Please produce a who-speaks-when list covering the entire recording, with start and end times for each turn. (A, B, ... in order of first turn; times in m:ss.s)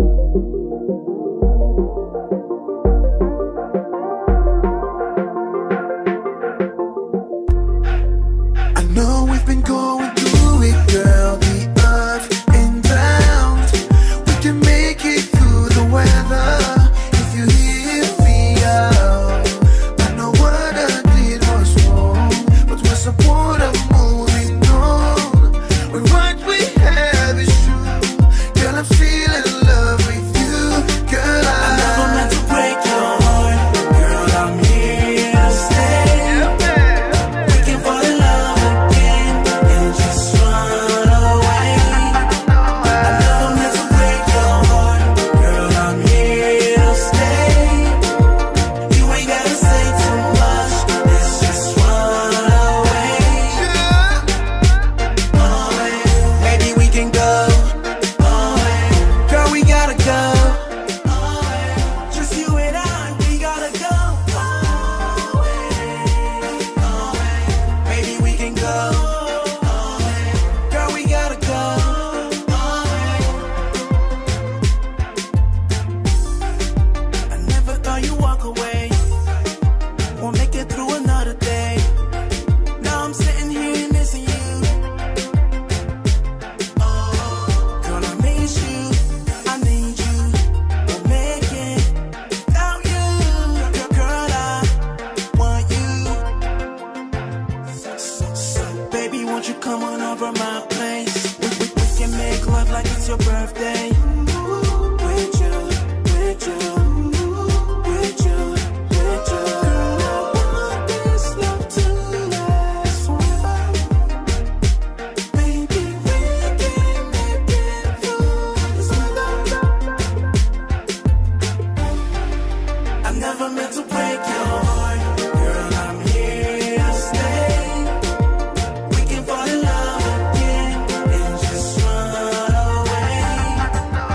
0:08.8-0:36.5 A
0:37.4-0:42.3 A
0:42.9-0:48.0 A
0:48.9-0:53.7 A
0:55.3-1:13.4 A
1:17.3-1:19.0 A
1:20.1-1:21.9 A
1:22.8-1:24.7 A
1:26.8-1:31.9 A
1:32.5-1:34.7 A
1:35.3-1:36.2 A
1:37.9-1:53.9 A
1:55.3-1:59.7 A
2:03.0-2:08.0 A
2:08.9-2:13.7 A